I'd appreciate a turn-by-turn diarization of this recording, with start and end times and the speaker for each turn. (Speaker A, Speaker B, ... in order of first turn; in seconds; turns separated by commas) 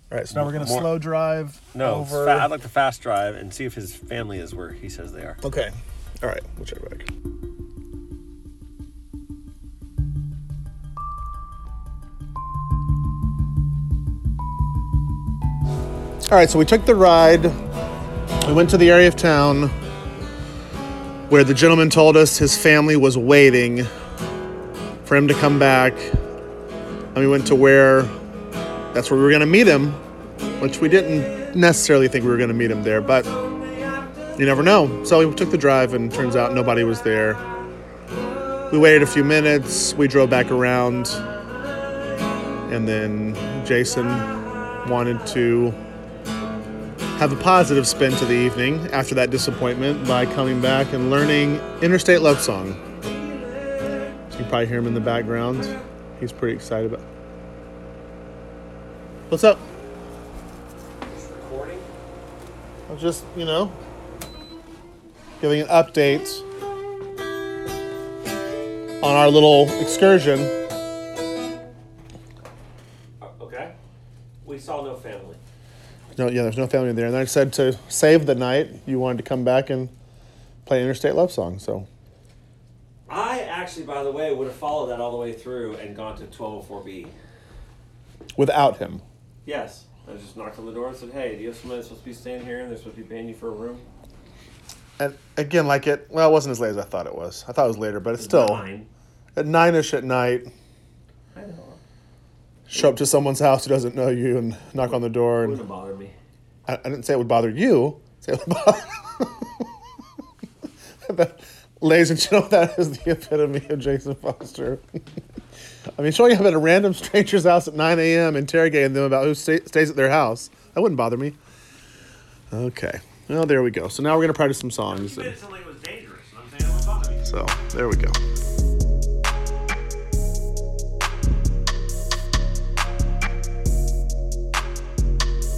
Speaker A: 0.1-2.5, Speaker B: 0.3-1.0, Speaker B: 1.8-5.4, Speaker A: 5.4-7.1, Speaker A: 16.3-17.6, Speaker A: 18.4-19.7, Speaker A: 21.3-23.9, Speaker A: 25.0-26.1, Speaker A: 27.1-28.1, Speaker A: 28.9-30.0, Speaker A: 30.6-33.3, Speaker A: 34.4-37.4, Speaker A: 38.7-41.3, Speaker A: 42.7-44.3, Speaker A: 44.8-45.8, Speaker A: 47.2-52.8, Speaker A: 54.3-57.0, Speaker A: 59.3-59.6, Speaker B: 61.1-61.9, Speaker A: 62.9-63.8, Speaker A: 65.4-66.5, Speaker A: 69.0-70.5, Speaker B: 73.2-73.7, Speaker B: 74.4-75.4, Speaker A: 76.2-79.9, Speaker A: 80.7-81.9, Speaker B: 83.1-87.2, Speaker A: 88.4-89.0, Speaker B: 89.5-93.9, Speaker A: 95.0-98.7, Speaker B: 98.2-98.9, Speaker A: 99.4-100.5, Speaker B: 101.3-101.8, Speaker A: 102.7-105.6, Speaker B: 104.9-106.2, Speaker A: 106.7-109.7, Speaker A: 111.0-114.8, Speaker A: 116.0-121.4, Speaker A: 122.5-125.4, Speaker B: 124.9-127.3, Speaker A: 127.2-128.2